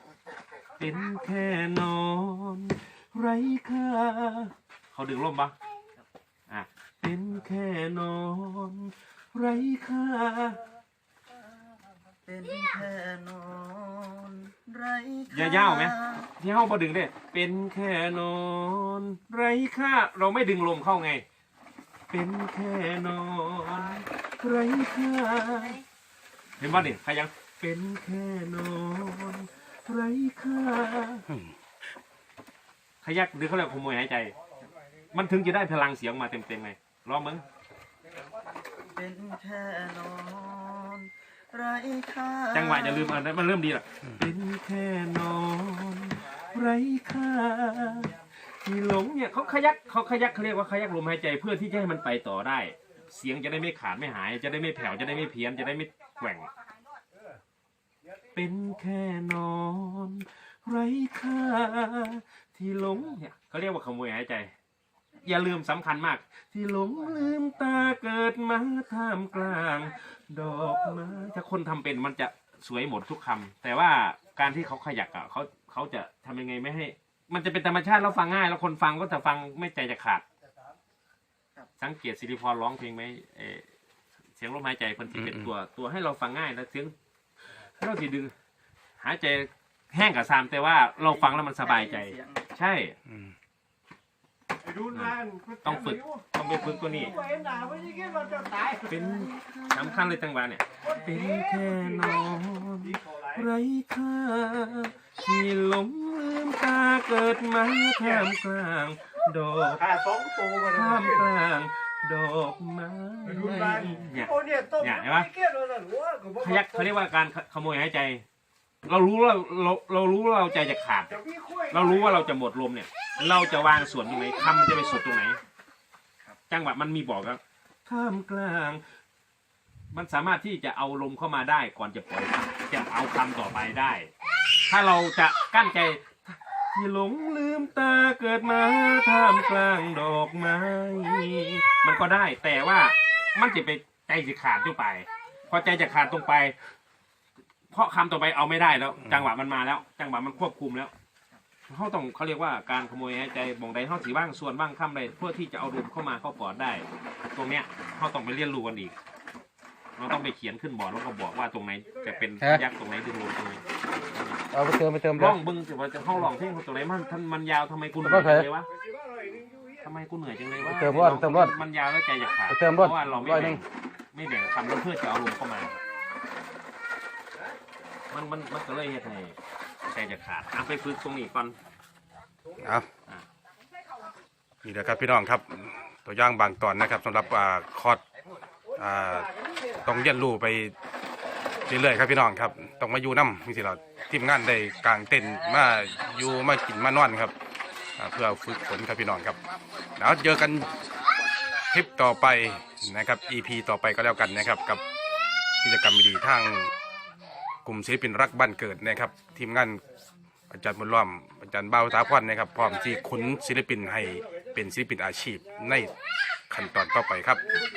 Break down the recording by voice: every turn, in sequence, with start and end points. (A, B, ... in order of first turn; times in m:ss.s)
0:00.8-0:05.5 A
0:06.5-0:10.6 A
0:12.2-0:16.3 B
0:15.3-0:21.2 A
0:22.1-0:25.8 A
0:26.6-0:31.2 A
0:33.0-0:34.3 A
0:35.1-0:37.4 A
0:38.9-0:43.2 B
0:42.5-0:56.5 A
0:58.3-1:04.5 A
1:05.2-1:20.2 A
1:21.8-1:23.7 A
1:24.4-1:26.9 A
1:25.1-1:25.5 C
1:27.8-1:28.3 A
1:29.0-1:33.0 A
1:31.0-1:32.5 B
1:33.0-1:33.3 C
1:34.6-1:36.0 D
1:34.9-1:37.1 A
1:36.6-1:40.2 B
1:38.9-1:55.3 A
1:53.5-1:54.8 D
1:55.4-1:56.4 D
1:56.3-1:58.2 A
1:58.8-2:05.4 A
2:06.5-2:08.8 A
2:09.9-2:14.1 A
2:14.7-2:26.5 A
2:27.7-2:30.9 A
2:31.7-2:39.0 A
2:40.0-2:44.4 A
2:44.5-2:45.4 C
2:45.2-2:48.7 A
2:48.0-2:48.5 C
2:49.8-2:55.8 A
2:50.6-2:51.6 C
2:52.5-2:53.6 C
2:58.1-2:59.4 A
2:59.9-3:01.6 A
3:02.6-3:02.9 C
3:04.6-3:08.0 C
3:08.8-3:10.7 C
3:11.6-3:17.3 C
3:18.0-3:19.4 C
3:20.0-3:20.7 C
3:21.7-3:24.8 C
3:25.6-3:26.7 C
3:27.6-3:29.8 C
3:30.5-3:35.9 C
3:36.5-3:37.6 C